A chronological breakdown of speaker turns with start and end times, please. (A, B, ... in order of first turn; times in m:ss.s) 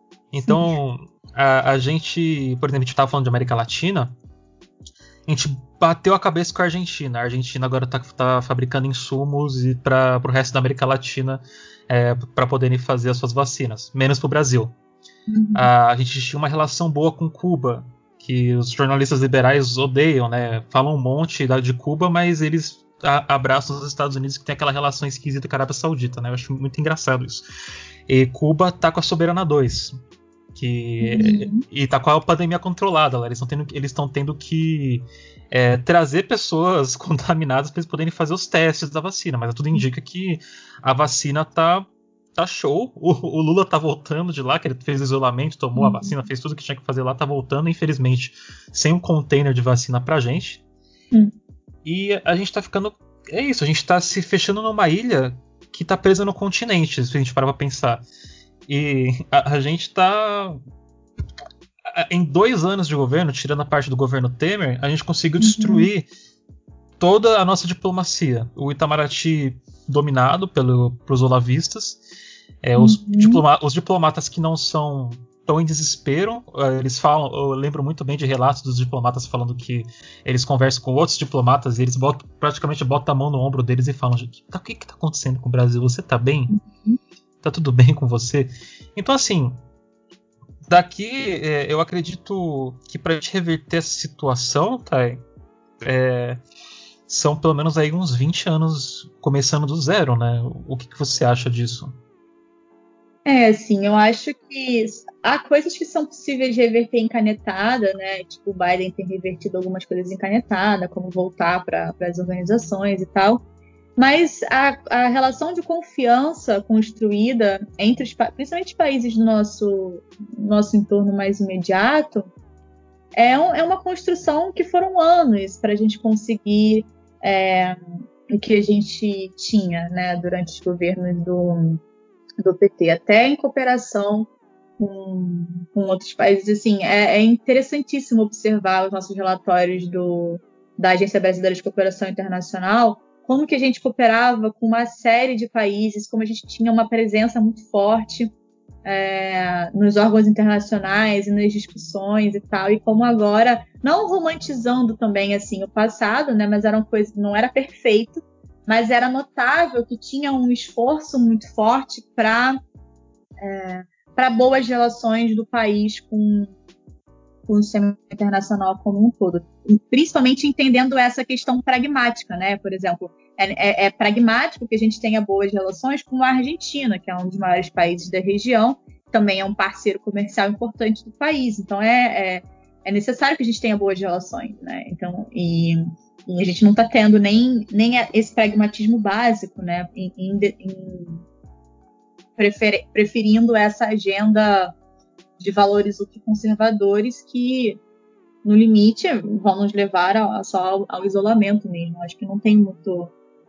0:00.3-0:04.1 A
0:00.4-0:00.7 B
0:05.3-0:14.7 A
0:15.3-0:15.7 B
0:15.6-0:27.4 A
0:28.1-0:30.0 A
0:30.6-0:50.6 A
0:31.0-0:31.6 B
0:45.8-0:46.1 B
0:51.8-0:58.0 A
0:58.7-1:00.6 A
1:01.9-1:06.1 A
1:05.4-1:05.9 B
1:07.0-1:12.0 A
1:12.6-1:26.6 A
1:12.8-1:13.4 B
1:26.5-1:27.0 B
1:27.4-1:29.6 A
1:30.7-1:35.2 A
1:35.8-1:36.4 A
1:37.1-1:42.0 A
1:43.3-1:53.4 B
1:54.0-2:02.3 B
2:03.1-2:11.8 B
2:12.4-2:28.3 B
2:28.8-2:42.6 B
2:43.4-2:46.5 B
2:47.5-3:11.2 B
3:12.4-3:14.8 B
3:15.4-3:17.8 B
3:18.4-3:23.1 B